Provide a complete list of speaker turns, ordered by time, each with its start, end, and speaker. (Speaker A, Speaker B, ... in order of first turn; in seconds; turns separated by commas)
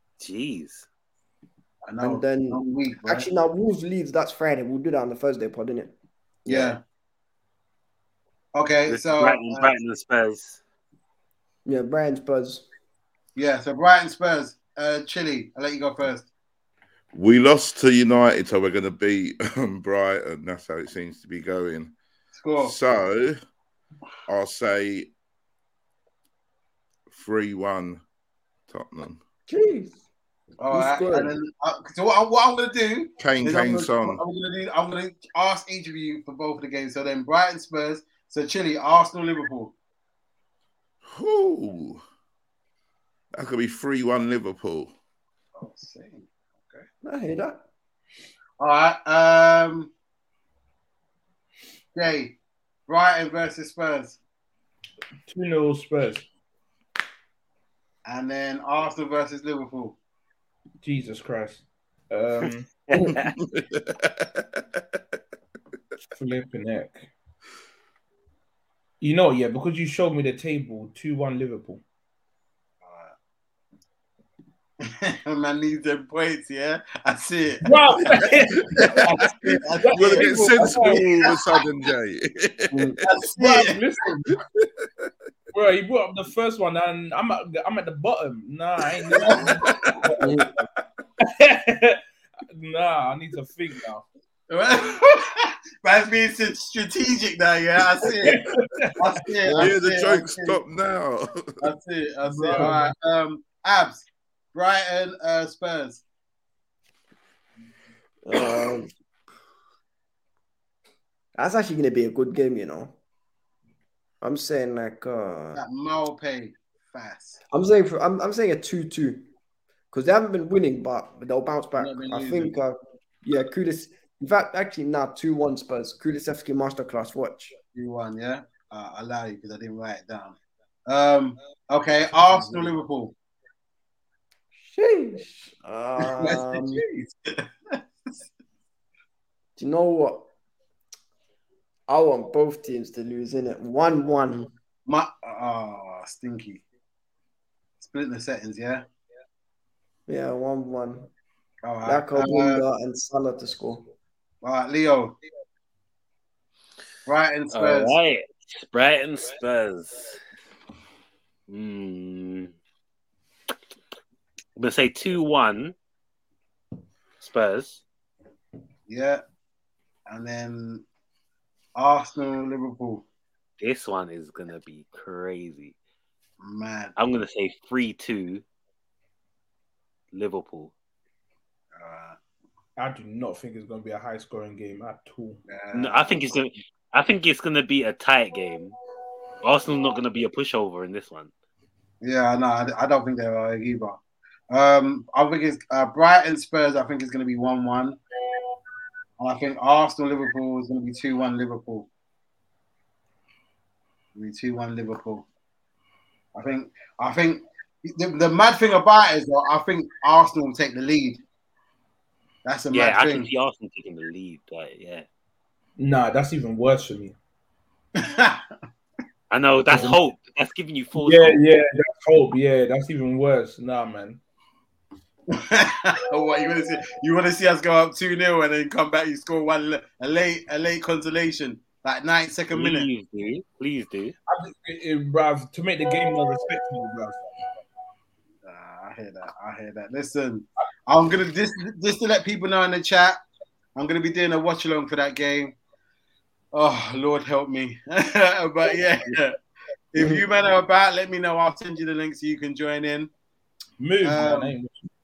Speaker A: 0.2-0.9, Speaker B: 1.9-3.3, Speaker C: 2.0-5.9, Speaker B: 6.5-6.8, Speaker B: 8.5-9.7, Speaker A: 8.9-10.6, Speaker C: 11.7-12.7, Speaker B: 13.4-16.3, Speaker D: 17.1-21.9, Speaker B: 22.3-22.7, Speaker D: 22.6-23.4, Speaker D: 24.3-25.1, Speaker D: 27.1-28.0, Speaker D: 28.7-29.2, Speaker C: 29.5-30.0, Speaker B: 30.6-39.8, Speaker C: 30.7-31.3, Speaker D: 33.2-34.2, Speaker D: 41.1-42.0, Speaker D: 43.3-44.9, Speaker B: 45.6-46.9, Speaker C: 47.0-47.6, Speaker B: 48.6-49.9, Speaker B: 52.0-52.4, Speaker B: 52.9-54.2, Speaker E: 55.3-56.2, Speaker B: 58.1-60.0, Speaker E: 60.8-62.7, Speaker A: 62.9-63.3, Speaker D: 63.1-64.8, Speaker E: 66.2-67.1, Speaker E: 69.0-71.8, Speaker B: 72.8-73.1, Speaker B: 74.8-77.7, Speaker E: 77.6-79.1, Speaker B: 78.8-81.4, Speaker E: 79.8-81.1, Speaker D: 80.0-83.0, Speaker C: 82.7-83.0, Speaker B: 83.0-83.8, Speaker E: 83.4-84.3, Speaker E: 85.5-90.6, Speaker B: 89.1-89.6, Speaker C: 90.2-90.6, Speaker E: 91.2-92.0, Speaker E: 92.5-94.0, Speaker B: 94.5-98.4, Speaker E: 98.2-99.0, Speaker B: 99.0-100.6, Speaker D: 99.5-101.7, Speaker B: 101.6-106.0, Speaker E: 102.2-102.9, Speaker C: 108.3-108.9, Speaker C: 111.3-113.0, Speaker C: 114.2-115.6, Speaker B: 115.5-117.4, Speaker C: 117.5-119.3, Speaker C: 119.9-127.6, Speaker B: 121.8-122.6, Speaker B: 127.7-130.4, Speaker B: 130.9-133.1, Speaker C: 134.5-136.8, Speaker B: 136.0-138.1, Speaker C: 139.6-140.3, Speaker C: 141.9-144.5, Speaker B: 144.9-146.6, Speaker B: 147.8-148.9, Speaker C: 150.1-151.1, Speaker B: 151.6-152.7, Speaker C: 151.8-153.8, Speaker B: 154.4-155.2, Speaker B: 157.1-157.9, Speaker A: 157.5-160.2, Speaker A: 161.5-162.5, Speaker A: 164.6-165.8, Speaker A: 167.2-167.8, Speaker B: 168.9-169.2, Speaker B: 170.1-170.8, Speaker B: 171.8-173.1, Speaker A: 173.6-175.8, Speaker B: 176.4-176.9, Speaker A: 177.0-178.4, Speaker A: 180.1-180.7, Speaker B: 181.8-182.2, Speaker E: 182.8-185.4, Speaker B: 185.5-186.3, Speaker A: 185.7-188.8, Speaker A: 189.4-191.3, Speaker B: 192.0-194.0, Speaker B: 194.5-198.0, Speaker B: 199.2-201.9, Speaker B: 204.2-205.3, Speaker B: 206.3-211.2, Speaker B: 212.4-213.3, Speaker A: 212.7-215.1, Speaker E: 215.8-217.2, Speaker B: 218.0-218.4, Speaker A: 219.3-221.4, Speaker E: 219.7-220.0, Speaker E: 221.0-224.2, Speaker B: 225.3-232.9, Speaker A: 232.5-234.2, Speaker E: 234.3-237.2, Speaker B: 238.4-243.2, Speaker B: 243.8-245.6, Speaker B: 246.5-249.4, Speaker B: 249.9-253.1, Speaker C: 250.0-250.2, Speaker E: 253.8-254.7, Speaker B: 254.0-254.6